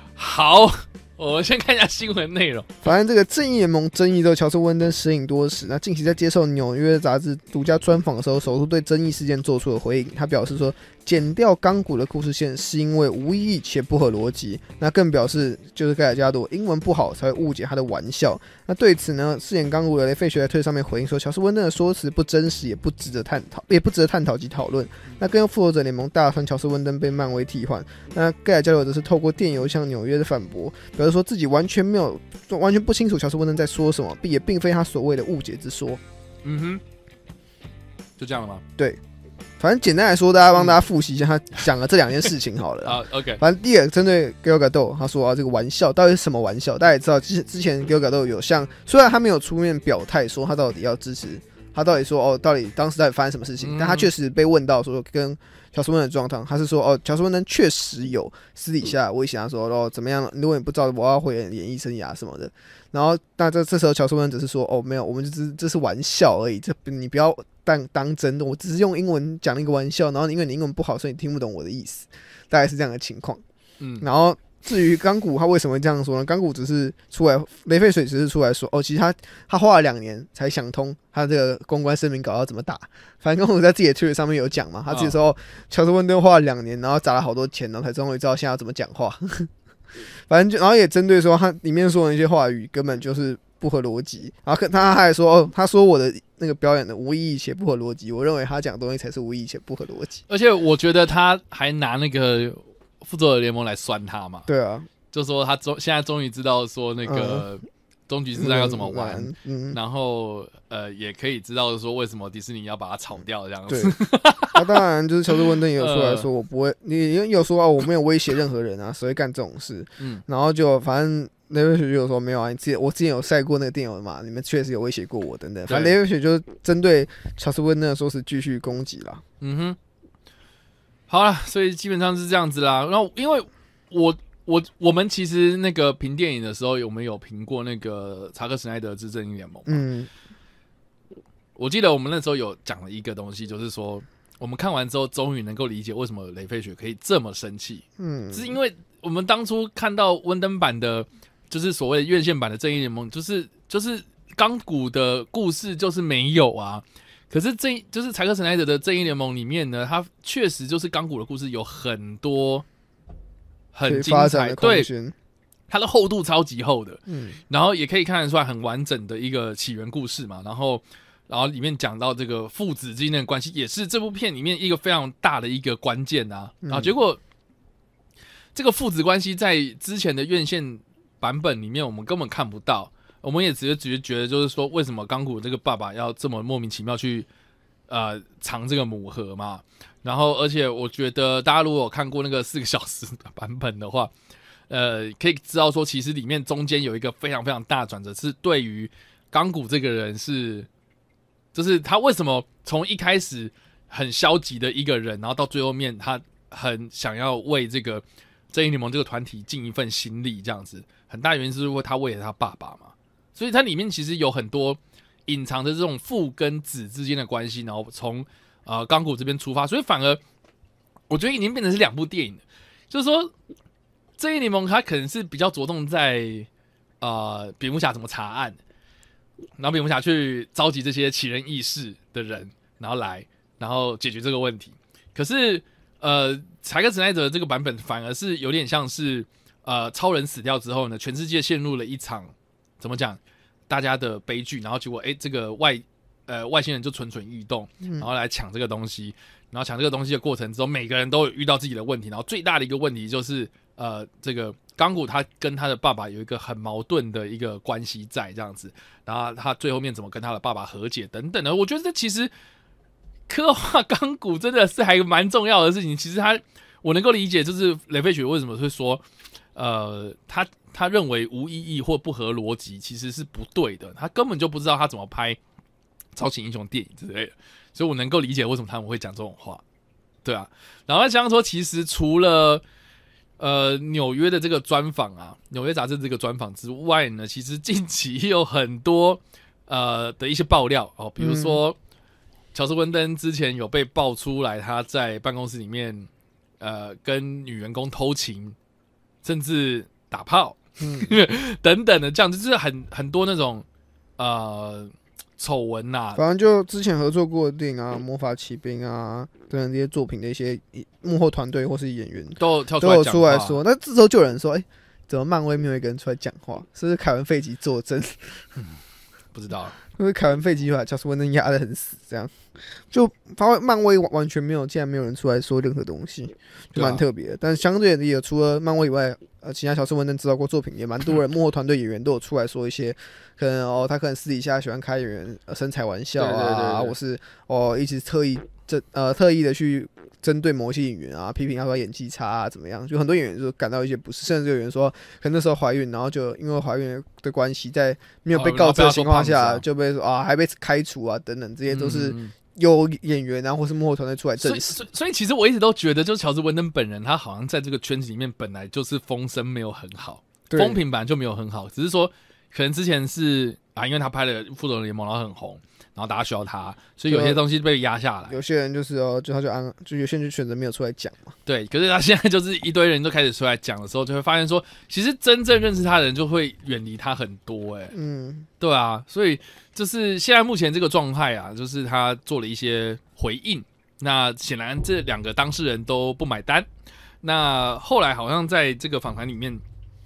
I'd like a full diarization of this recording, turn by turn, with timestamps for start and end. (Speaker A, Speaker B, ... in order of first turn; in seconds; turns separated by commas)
Speaker A: 0.2-2.7, Speaker B: 2.8-36.0, Speaker A: 36.4-36.8, Speaker A: 38.2-38.6, Speaker B: 39.6-73.4, Speaker A: 42.9-43.4, Speaker A: 53.6-54.1, Speaker A: 73.8-74.1, Speaker B: 74.0-89.5, Speaker A: 84.9-85.2, Speaker B: 90.3-100.2, Speaker A: 100.3-104.5, Speaker B: 104.5-104.9, Speaker A: 105.1-114.8, Speaker B: 107.0-107.5, Speaker B: 108.4-109.8, Speaker B: 113.7-114.0, Speaker B: 114.5-129.2, Speaker A: 115.8-116.3, Speaker A: 125.7-126.0, Speaker A: 129.4-129.8, Speaker A: 131.1-139.8, Speaker B: 139.7-140.1, Speaker A: 141.6-162.7, Speaker B: 148.0-148.6, Speaker A: 163.7-164.9, Speaker B: 163.8-165.2, Speaker A: 165.7-177.2, Speaker B: 167.1-167.4, Speaker B: 176.6-176.9, Speaker A: 178.6-187.3, Speaker A: 187.9-194.1, Speaker A: 194.7-200.7, Speaker A: 201.5-220.2, Speaker A: 221.1-223.3, Speaker A: 224.2-226.5, Speaker A: 227.0-228.6, Speaker A: 229.6-262.3, Speaker A: 263.3-269.0, Speaker A: 269.6-275.4, Speaker A: 276.2-279.6, Speaker A: 280.2-282.6, Speaker A: 283.4-291.8, Speaker B: 291.2-291.6, Speaker A: 292.5-296.1, Speaker A: 296.6-298.6, Speaker A: 299.2-303.6, Speaker B: 300.8-301.1, Speaker A: 304.2-306.2, Speaker B: 306.1-318.4, Speaker A: 312.4-313.6, Speaker A: 319.3-319.8, Speaker B: 319.9-354.8, Speaker A: 326.8-327.0, Speaker A: 336.2-336.9, Speaker A: 348.3-349.6, Speaker A: 351.7-352.3, Speaker A: 354.4-368.4, Speaker B: 360.5-360.8, Speaker B: 367.1-367.4, Speaker B: 368.3-371.4, Speaker A: 371.5-377.9, Speaker B: 377.9-378.5, Speaker A: 378.6-386.7, Speaker A: 387.2-389.6